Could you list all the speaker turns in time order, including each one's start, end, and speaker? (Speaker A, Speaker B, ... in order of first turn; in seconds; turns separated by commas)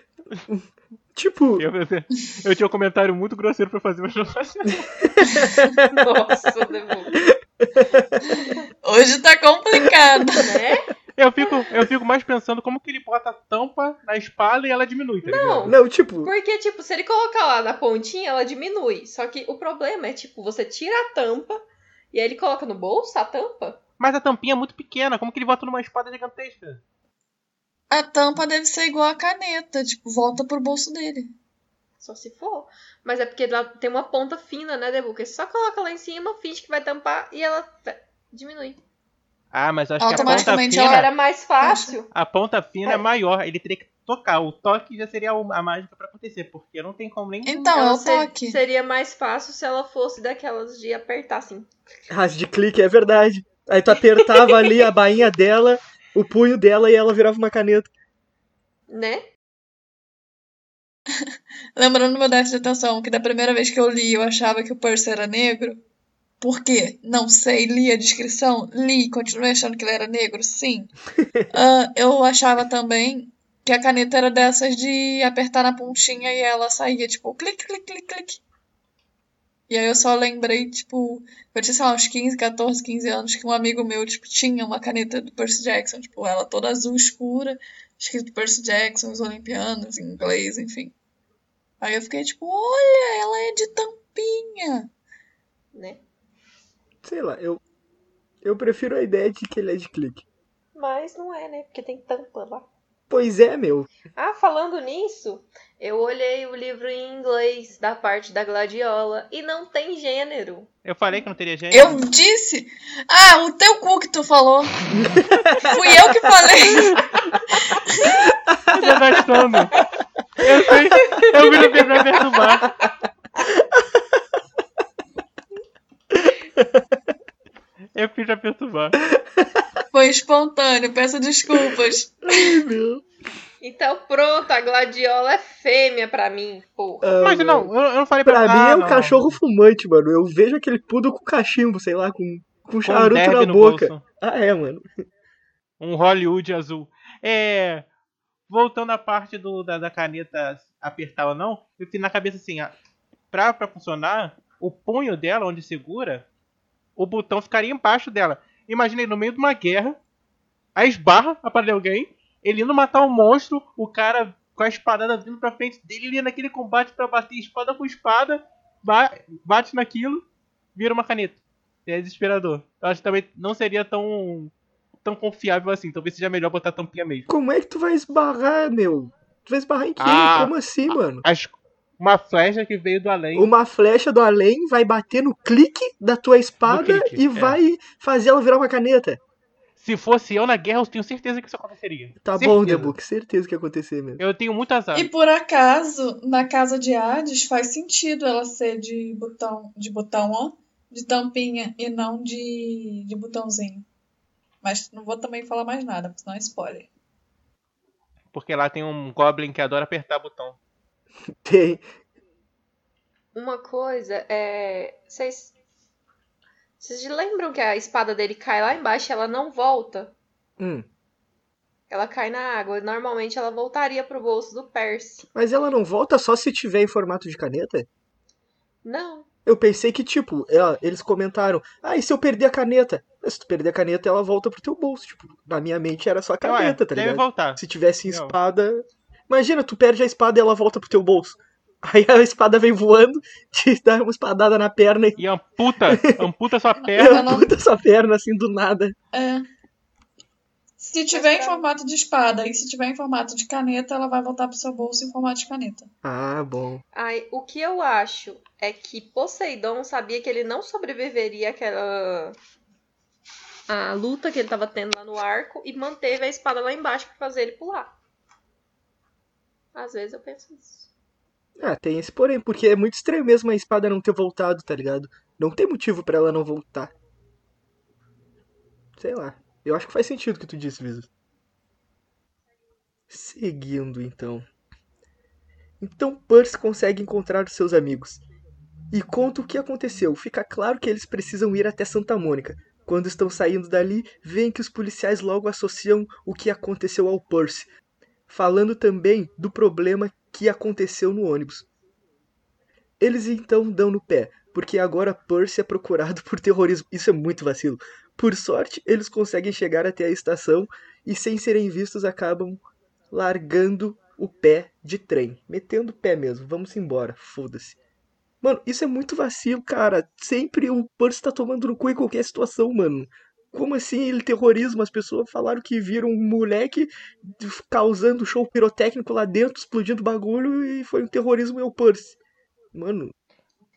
Speaker A: 0.5-1.6, Speaker B: 1.6-4.9, Speaker A: 5.0-5.9, Speaker C: 5.2-5.7, Speaker D: 5.9-7.2, Speaker A: 7.1-8.1, Speaker C: 8.3-10.5, Speaker D: 10.4-10.9, Speaker B: 11.2-15.8, Speaker D: 15.2-21.6, Speaker A: 15.6-16.3, Speaker D: 22.1-23.8, Speaker B: 24.0-26.8, Speaker C: 27.9-31.3, Speaker D: 32.0-38.8, Speaker B: 39.5-41.1, Speaker C: 40.0-41.1, Speaker D: 40.1-42.1, Speaker C: 41.6-42.0, Speaker B: 42.1-47.6, Speaker C: 47.4-48.6, Speaker D: 47.6-51.7, Speaker A: 52.1-57.9, Speaker D: 54.2-54.9, Speaker D: 58.9-59.3, Speaker C: 61.8-65.8, Speaker C: 66.4-70.9, Speaker C: 71.5-78.4, Speaker C: 79.7-90.9, Speaker C: 91.8-94.9, Speaker D: 95.7-96.0, Speaker A: 97.0-97.6, Speaker A: 98.4-100.2, Speaker D: 100.7-102.7, Speaker A: 103.1-103.9, Speaker D: 104.2-110.7, Speaker B: 110.8-112.0, Speaker C: 111.7-114.9, Speaker A: 114.9-116.0, Speaker C: 115.6-117.0, Speaker C: 117.6-118.2, Speaker A: 118.5-118.8, Speaker B: 118.7-119.8, Speaker B: 120.4-122.8, Speaker D: 121.0-122.7, Speaker A: 123.5-124.0, Speaker A: 126.1-126.8, Speaker B: 127.9-129.0, Speaker A: 129.1-129.7, Speaker C: 129.9-132.6, Speaker A: 131.5-133.0, Speaker D: 133.6-137.2, Speaker A: 137.0-137.7, Speaker B: 137.2-139.4, Speaker A: 138.2-144.9, Speaker B: 142.8-144.0, Speaker B: 145.8-147.9, Speaker B: 148.5-152.7, Speaker B: 153.3-156.2, Speaker B: 157.0-160.0, Speaker B: 160.8-174.5, Speaker B: 175.0-177.3, Speaker A: 177.3-181.2, Speaker B: 180.0-183.5, Speaker A: 183.3-189.2, Speaker B: 186.6-187.6, Speaker B: 189.8-192.9, Speaker A: 192.2-194.2, Speaker B: 194.2-195.1, Speaker C: 194.9-203.9, Speaker C: 204.6-206.9, Speaker B: 208.3-210.6, Speaker A: 211.4-211.8, Speaker D: 213.3-215.5, Speaker D: 216.8-220.1, Speaker A: 220.6-220.9, Speaker D: 221.9-225.2, Speaker A: 225.3-227.9, Speaker D: 228.8-229.3, Speaker A: 229.4-245.2, Speaker B: 236.4-238.4, Speaker B: 245.2-247.3, Speaker A: 245.9-246.2, Speaker C: 246.8-247.5, Speaker A: 246.9-248.9, Speaker C: 249.1-249.4, Speaker C: 250.8-255.9, Speaker D: 251.1-251.7, Speaker A: 256.0-256.8, Speaker D: 256.9-262.4, Speaker D: 263.7-267.9, Speaker D: 269.7-270.9, Speaker A: 271.6-276.9, Speaker A: 279.0-281.1, Speaker A: 283.1-284.4, Speaker A: 285.8-288.2, Speaker A: 288.9-297.7, Speaker A: 298.3-301.6, Speaker A: 303.0-317.8, Speaker A: 318.4-332.2, Speaker A: 332.7-333.1